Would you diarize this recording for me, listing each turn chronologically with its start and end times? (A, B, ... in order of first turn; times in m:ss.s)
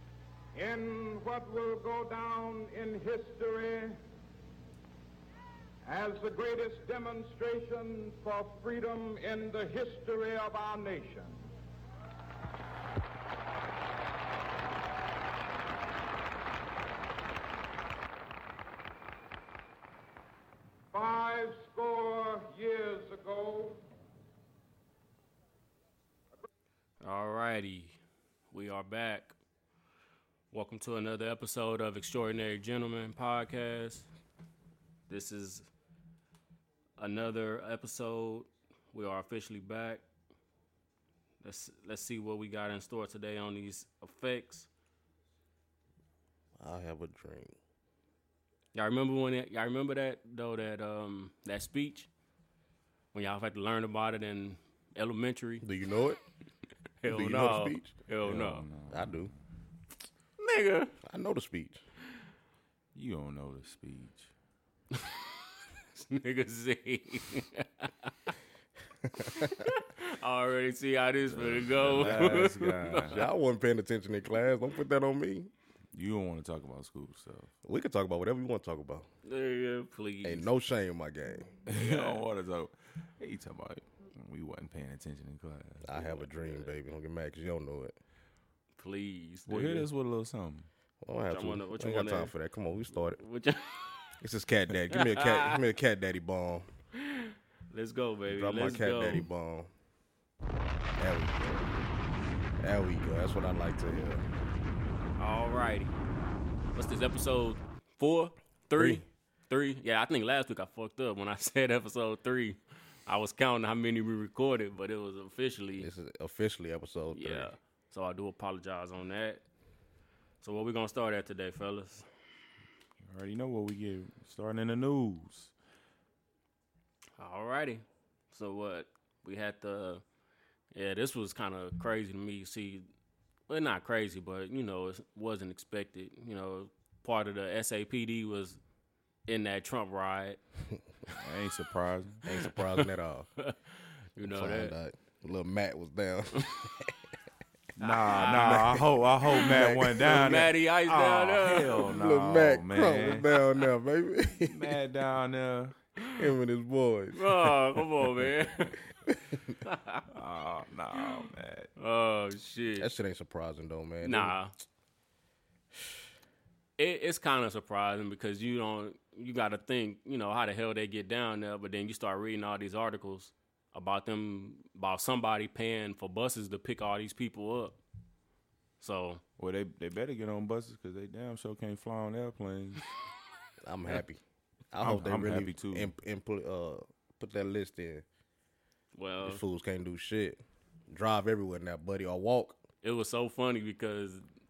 0:00.5-0:04.0 A
0:05.8-0:11.5 A
0:20.9-0:23.8 A
0:27.0-0:28.0 B
0:28.5-0:29.4 B
0:30.5-0:34.1 B
0:35.1-0:35.7 B
0:37.0-0:40.0 B
0:41.4-0:44.7 B
0:46.6-0:47.6 C
0:48.7-0:52.1 B
0:53.1-0:55.6 B
0:55.6-0:56.2 C
0:57.0-0:58.6 B
0:57.0-0:57.9 C
0:58.2-0:59.3 D
0:58.9-0:59.3 C
1:00.4-1:00.9 B
1:01.0-1:01.8 C
1:02.9-1:04.3 D
1:05.9-1:08.1 B
1:09.1-1:13.2 B
1:09.2-1:09.5 C
1:11.3-1:13.2 D
1:12.0-1:12.4 C
1:13.1-1:15.5 C
1:15.9-1:17.5 D
1:17.6-1:19.0 C
1:19.2-1:20.5 B
1:20.2-1:21.5 C
1:21.7-1:26.0 D
1:21.7-1:22.2 B
1:25.8-1:27.9 C
1:26.3-1:26.7 B
1:28.8-1:29.9 B
1:29.5-1:30.7 D
1:31.0-1:33.2 C
1:31.3-1:32.3 B
1:33.1-1:34.0 B
1:34.2-1:36.7 C
1:34.9-1:35.6 B
1:37.0-1:39.3 B
1:38.3-1:39.7 C
1:41.0-1:41.7 C
1:42.6-1:44.2 C
1:45.2-1:45.9 B
1:46.7-1:55.9 B
1:48.7-1:49.0 C
1:55.8-1:57.5 C
1:57.1-1:59.4 B
2:00.4-2:02.0 B
2:03.0-2:05.5 D
2:07.2-2:10.0 B
2:10.7-2:12.8 B
2:13.5-2:18.6 B
2:19.3-2:20.4 B
2:21.2-2:22.2 D
2:22.2-2:23.3 C
2:23.4-2:24.7 B
2:24.2-2:27.0 C
2:27.8-2:33.2 D
2:27.8-2:28.6 B
2:28.1-2:30.4 C
2:29.3-2:31.9 B
2:31.8-2:34.8 C
2:34.4-2:35.7 D
2:36.1-2:37.6 C
2:37.1-2:38.8 B
2:39.1-2:39.6 C
2:39.6-2:40.1 B
2:40.1-2:41.7 D
2:41.8-2:42.9 B
2:42.8-2:44.3 C
2:44.0-2:44.5 B
2:46.8-2:57.8 B
2:58.8-2:59.2 B
2:59.4-3:02.9 D
3:03.6-3:04.2 C
3:04.7-3:08.0 C
3:04.8-3:05.9 D
3:09.0-3:09.4 B
3:09.2-3:12.6 C
3:12.8-3:14.2 B